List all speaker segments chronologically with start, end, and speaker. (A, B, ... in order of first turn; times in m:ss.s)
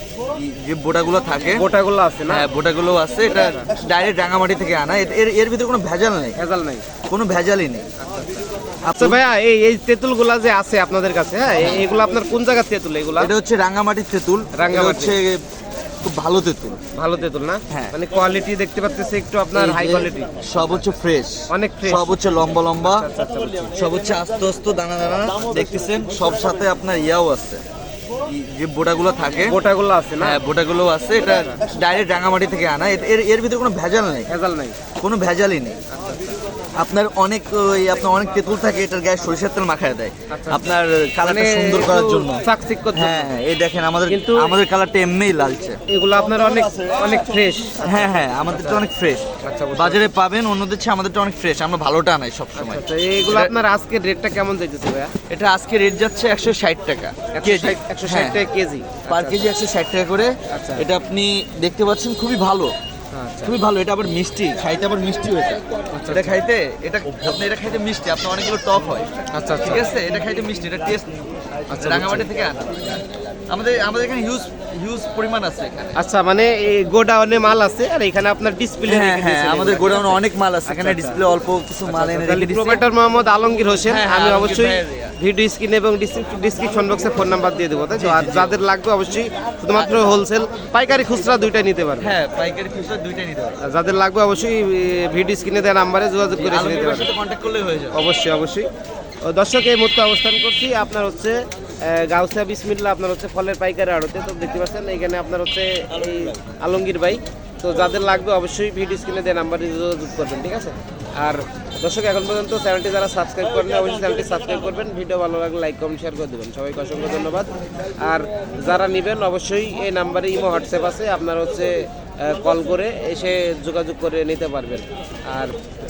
0:00.4-0:01.7 A
0:01.5-0:02.5 B
0:02.3-0:06.4 A
0:03.4-0:03.7 B
0:06.4-0:06.9 B
0:07.0-0:07.9 A
0:08.0-0:08.4 B
0:08.8-0:09.2 A
0:09.0-0:13.3 B
0:13.2-0:15.4 A
0:14.6-0:15.2 B
0:16.0-0:16.8 A
0:16.9-0:20.8 B
0:19.6-0:23.1 A
0:21.5-0:22.1 B
0:22.8-0:23.8 B
0:23.7-0:27.6 A
0:28.3-0:29.6 A
0:29.5-0:30.4 B
0:30.2-0:34.3 A
0:31.3-0:31.6 B
0:34.3-0:34.8 B
0:35.0-0:35.8 A
0:35.9-0:36.4 B
0:36.8-0:45.8 A
0:40.3-0:40.7 B
0:41.2-0:43.3 B
0:44.1-0:44.6 B
0:45.9-0:48.9 B
0:47.8-0:53.5 A
0:49.4-0:50.1 B
0:52.6-0:55.1 B
0:55.3-0:58.4 A
0:57.3-0:59.5 B
0:59.0-1:02.7 A
1:00.5-1:00.9 B
1:03.1-1:03.5 B
1:03.4-1:16.0 A
1:05.9-1:06.4 B
1:09.3-1:09.9 B
1:11.7-1:12.3 B
1:16.0-1:21.2 B
1:18.9-1:22.8 A
1:21.9-1:32.1 B
1:23.9-1:25.2 A
1:28.0-1:28.6 A
1:32.0-1:33.6 A
1:33.6-1:37.1 B
1:36.3-1:38.0 A
1:37.9-1:38.7 B
1:39.2-2:05.6 B